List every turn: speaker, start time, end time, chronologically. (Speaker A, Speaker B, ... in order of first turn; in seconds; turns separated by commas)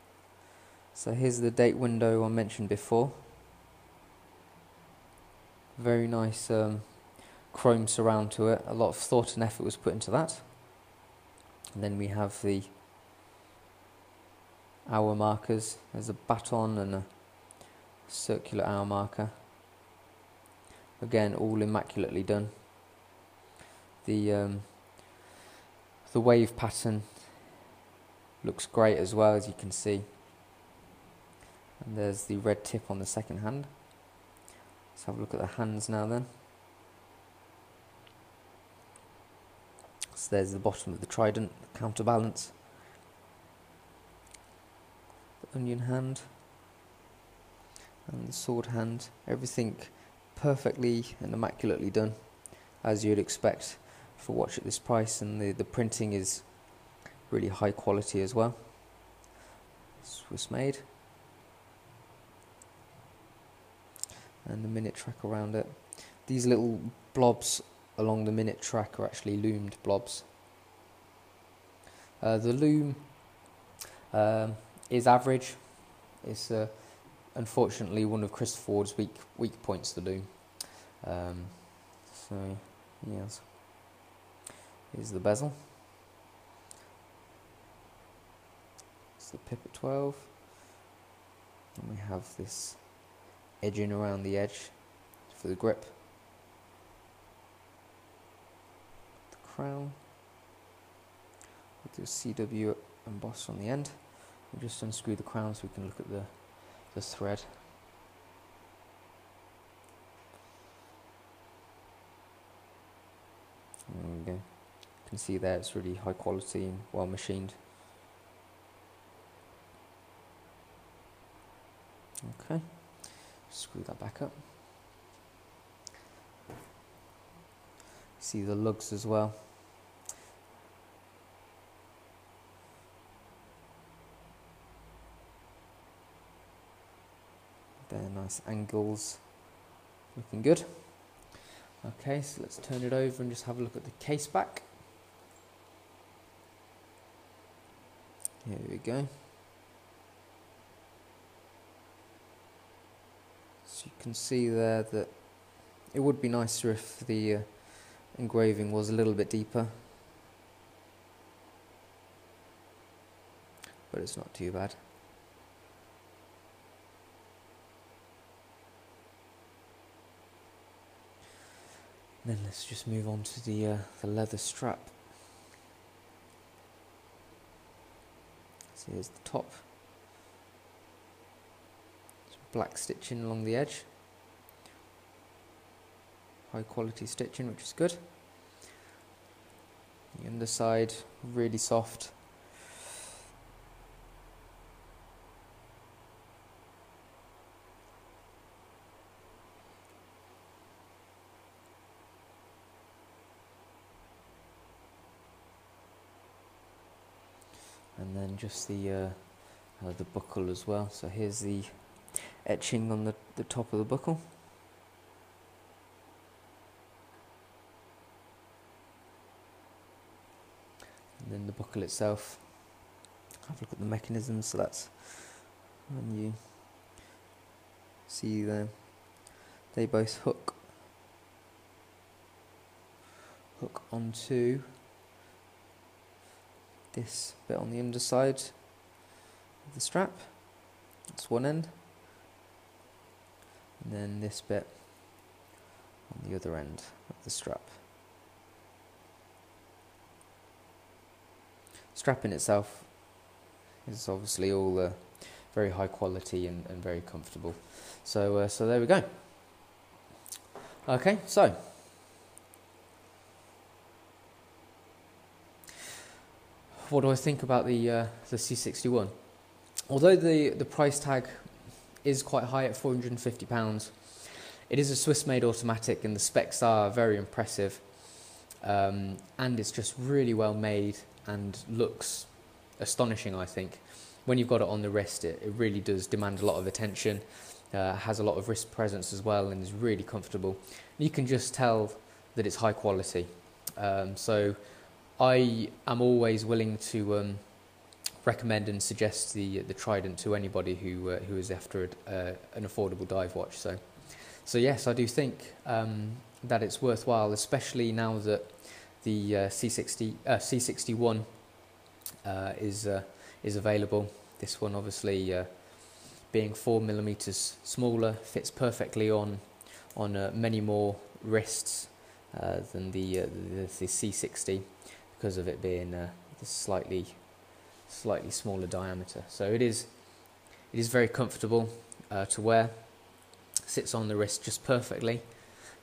Speaker A: 0.9-3.3, Speaker A: 5.7-10.6, Speaker A: 11.7-12.8, Speaker A: 14.8-19.3, Speaker A: 21.0-22.7, Speaker A: 24.0-25.2, Speaker A: 26.0-27.5, Speaker A: 28.4-30.1, Speaker A: 31.8-34.1, Speaker A: 34.9-36.3, Speaker A: 40.1-42.6, Speaker A: 45.4-46.3, Speaker A: 48.0-59.1, Speaker A: 60.0-60.8, Speaker A: 64.4-70.3, Speaker A: 72.2-73.5, Speaker A: 74.1-83.9, Speaker A: 84.9-85.8, Speaker A: 89.2-90.4, Speaker A: 91.8-96.0, Speaker A: 99.3-100.0, Speaker A: 101.8-107.6, Speaker A: 113.9-117.6, Speaker A: 122.2-124.5, Speaker A: 128.2-129.6, Speaker A: 137.9-139.5, Speaker A: 140.1-141.3, Speaker A: 141.8-144.7, Speaker A: 148.4-149.2, Speaker A: 153.7-159.9, Speaker A: 163.9-164.8, Speaker A: 172.2-175.0, Speaker A: 178.7-179.6, Speaker A: 182.3-183.9, Speaker A: 186.5-188.1, Speaker A: 190.1-192.4, Speaker A: 207.9-214.3, Speaker A: 221.2-222.8, Speaker A: 223.4-226.6, Speaker A: 228.1-230.7, Speaker A: 233.6-234.7, Speaker A: 236.9-238.8, Speaker A: 239.7-241.8, Speaker A: 243.8-245.3, Speaker A: 246.1-247.8, Speaker A: 251.9-253.3, Speaker A: 253.8-259.6, Speaker A: 260.8-261.8, Speaker A: 266.8-311.7, Speaker A: 312.2-335.6